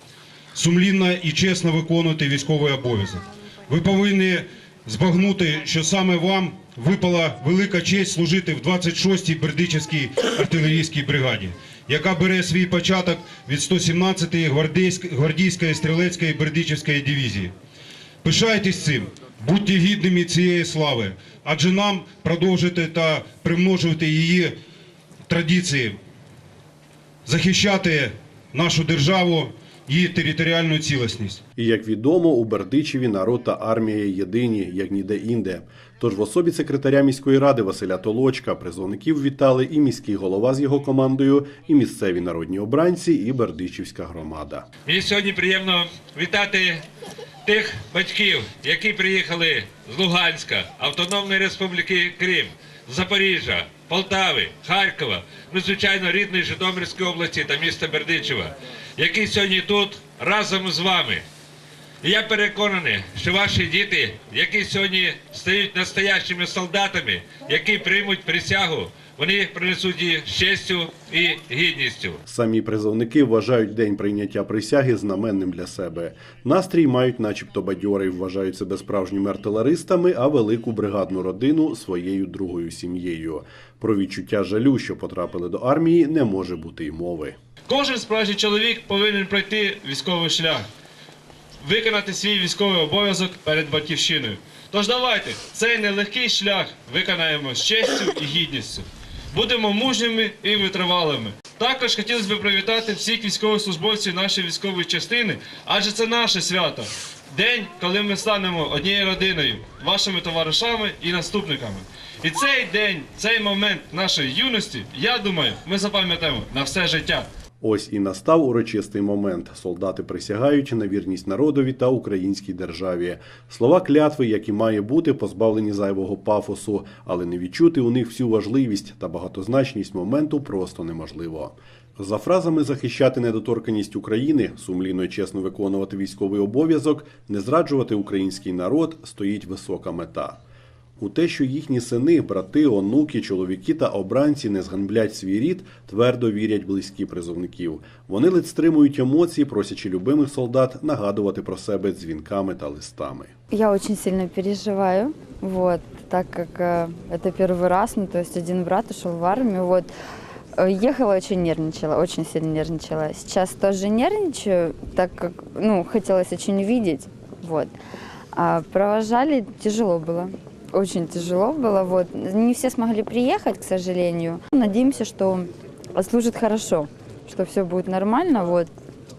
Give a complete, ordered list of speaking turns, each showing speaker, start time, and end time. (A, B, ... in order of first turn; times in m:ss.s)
0:00.5-0:17.5 A
0:18.2-0:24.5 A
0:25.3-0:26.0 A
0:27.3-0:31.4 A
0:31.6-0:44.7 B
0:44.8-0:46.8 C
0:47.4-1:01.3 C
1:02.0-1:12.2 C
1:12.2-1:27.4 B
1:27.7-1:30.6 D
1:31.6-1:57.3 D
1:57.6-2:20.4 B
2:21.0-2:33.3 B
2:33.5-2:39.9 E
2:40.6-2:47.8 E
2:48.3-2:58.7 E